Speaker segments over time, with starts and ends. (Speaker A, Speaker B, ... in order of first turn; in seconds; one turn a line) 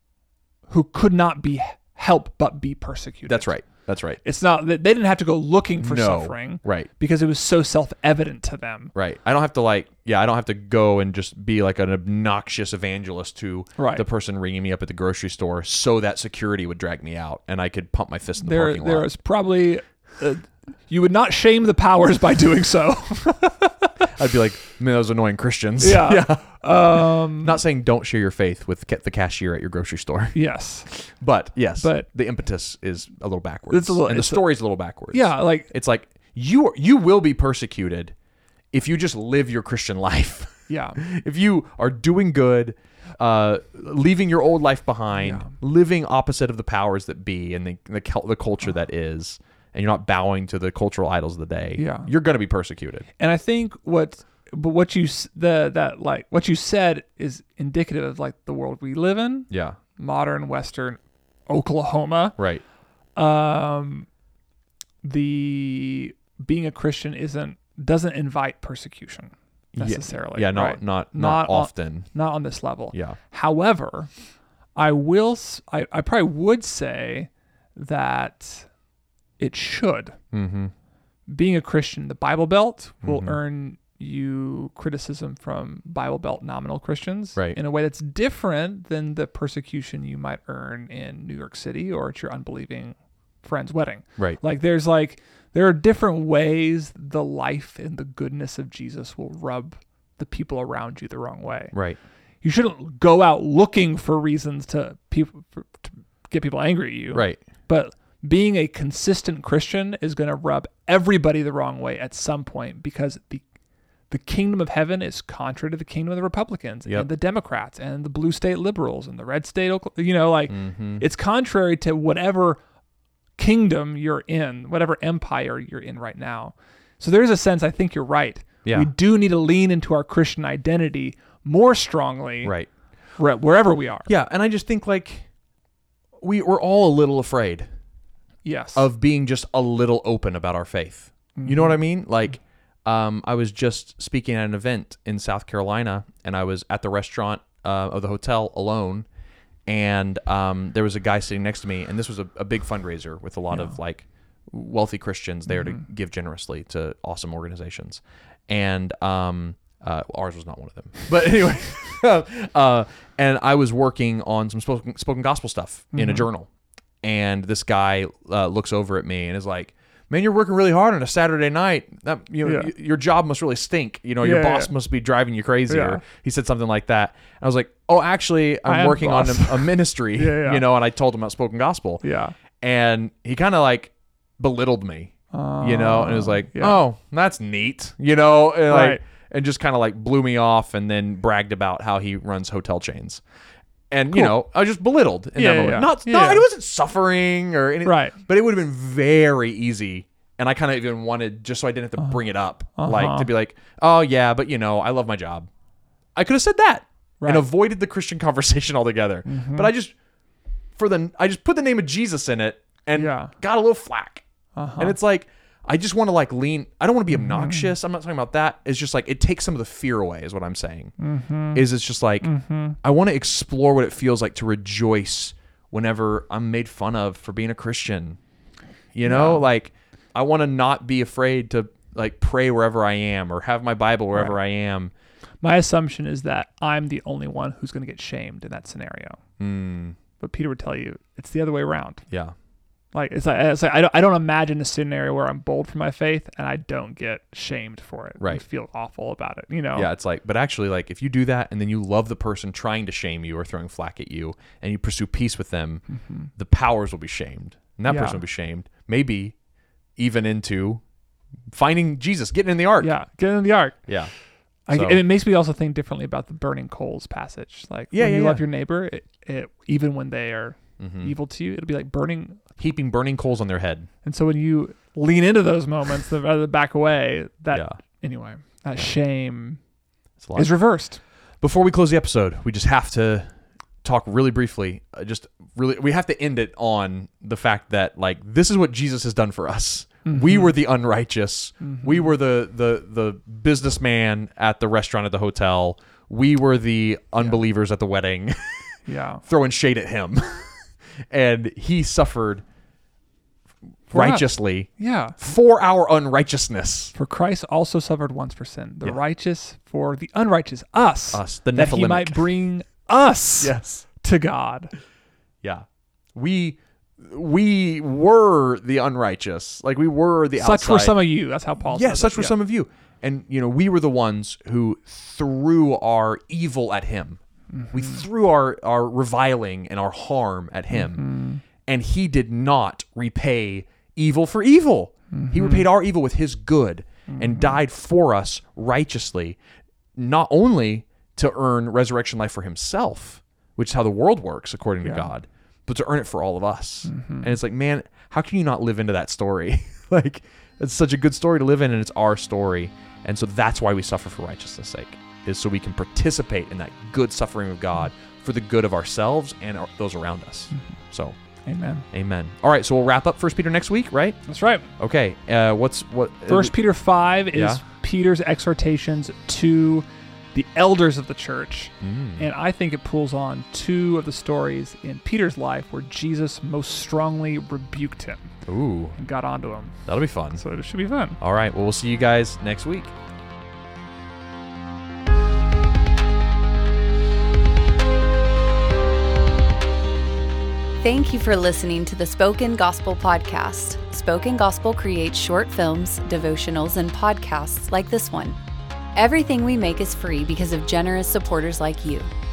Speaker A: 0.7-3.5
Speaker B: 3.3-4.2
Speaker A: 4.2-8.9
Speaker B: 5.8-6.9
Speaker B: 8.9-19.1
Speaker A: 13.8-14.0
Speaker A: 18.4-23.8
Speaker B: 24.1-30.4
Speaker A: 25.8-27.6
Speaker A: 30.3-30.9
Speaker B: 30.9-38.1
Speaker A: 31.8-32.1
Speaker A: 33.7-34.5
Speaker A: 35.1-35.7
Speaker B: 38.7-53.0
Speaker A: 40.7-41.0
Speaker A: 45.2-45.5
Speaker A: 51.8-52.1
Speaker A: 53.2-62.4
Speaker B: 59.5-59.8
Speaker B: 62.4-62.6
Speaker A: 63.1-64.1
Speaker A: 65.0-74.1
Speaker B: 69.7-72.1
Speaker B: 72.9-73.2
Speaker A: 74.8-78.7
Speaker A: 79.4-80.2
Speaker B: 80.3-80.7
Speaker A: 81.3-101.7
Speaker B: 83.0-83.4
Speaker B: 101.7-102.0
Speaker A: 102.4-113.4
Speaker B: 107.1-107.4
Speaker A: 114.1-122.6
Speaker B: 120.5-121.0
Speaker A: 123.4-132.5
Speaker B: 128.6-128.9
Speaker B: 132.4-132.7
Speaker A: 133.2-134.1
Speaker B: 134.1-135.3
Speaker B: 136.2-137.7
Speaker A: 138.4-138.9
Speaker B: 138.7-149.1
Speaker A: 141.3-141.8
Speaker B: 149.7-166.5
Speaker A: 155.5-155.8
Speaker A: 165.9-166.3
Speaker B: 167.0-182.0
Speaker A: 172.4-172.7
Speaker A: 174.2-174.7
Speaker A: 175.7-176.0
Speaker A: 178.6-180.6
Speaker A: 182.0-182.3
Speaker B: 182.6-193.2
Speaker A: 185.3-186.8
Speaker A: 188.7-189.0
Speaker B: 193.9-205.5
Speaker A: 194.1-194.4
Speaker A: 195.3-196.5
Speaker A: 197.8-198.2
Speaker A: 202.8-203.3
Speaker B: 206.2-209.9
Speaker A: 207.2-207.4
Speaker A: 209.2-209.7
Speaker B: 210.8-214.2
Speaker A: 212.9-213.3
Speaker A: 214.6-215.0
Speaker B: 214.8-220.9
Speaker A: 217.1-217.8
Speaker A: 221.0-221.7
Speaker B: 221.5-228.2
Speaker A: 222.2-222.8
Speaker B: 228.9-234.9
Speaker A: 229.0-229.4
Speaker A: 235.4-239.2
Speaker B: 239.4-239.9
Speaker A: 240.2-242.1
Speaker A: 242.9-249.9
Speaker B: 249.7-259.3
Speaker A: 256.0-256.3
Speaker A: 257.9-258.2
Speaker B: 260.0-260.8
Speaker B: 261.5-262.9
Speaker A: 262.8-263.9
Speaker A: 264.7-272.4
Speaker B: 264.7-265.0
Speaker B: 267.9-268.4
Speaker B: 270.8-271.1
Speaker B: 272.6-273.9
Speaker A: 274.0-279.6
Speaker B: 277.5-277.8
Speaker B: 280.2-280.5
Speaker A: 280.3-281.0
Speaker B: 281.4-283.3
Speaker B: 283.8-302.4
Speaker A: 290.1-290.5
Speaker A: 291.6-292.1
Speaker A: 298.9-299.2
Speaker A: 303.9-305.2
Speaker B: 303.9-306.9
Speaker A: 306.9-314.7
Speaker B: 311.1-312.3
Speaker B: 313.4-313.9
Speaker B: 315.4-321.1
Speaker A: 320.4-322.4
Speaker B: 321.6-339.4
Speaker A: 327.6-328.0
Speaker A: 330.7-331.4
Speaker A: 335.1-335.7
Speaker A: 337.1-337.6
Speaker B: 339.9-361.1
Speaker A: 344.8-345.1
Speaker A: 346.9-347.4
Speaker A: 361.4-361.8
Speaker B: 361.9-364.2
Speaker A: 364.2-364.7
Speaker B: 364.8-366.6
Speaker A: 366.3-378.3
Speaker B: 367.3-367.6
Speaker B: 371.8-372.3
Speaker B: 378.4-379.0
Speaker A: 379.0-381.2
Speaker B: 379.9-380.4
Speaker B: 381.2-382.9
Speaker C: 390.8-398.4
Speaker C: 398.9-402.1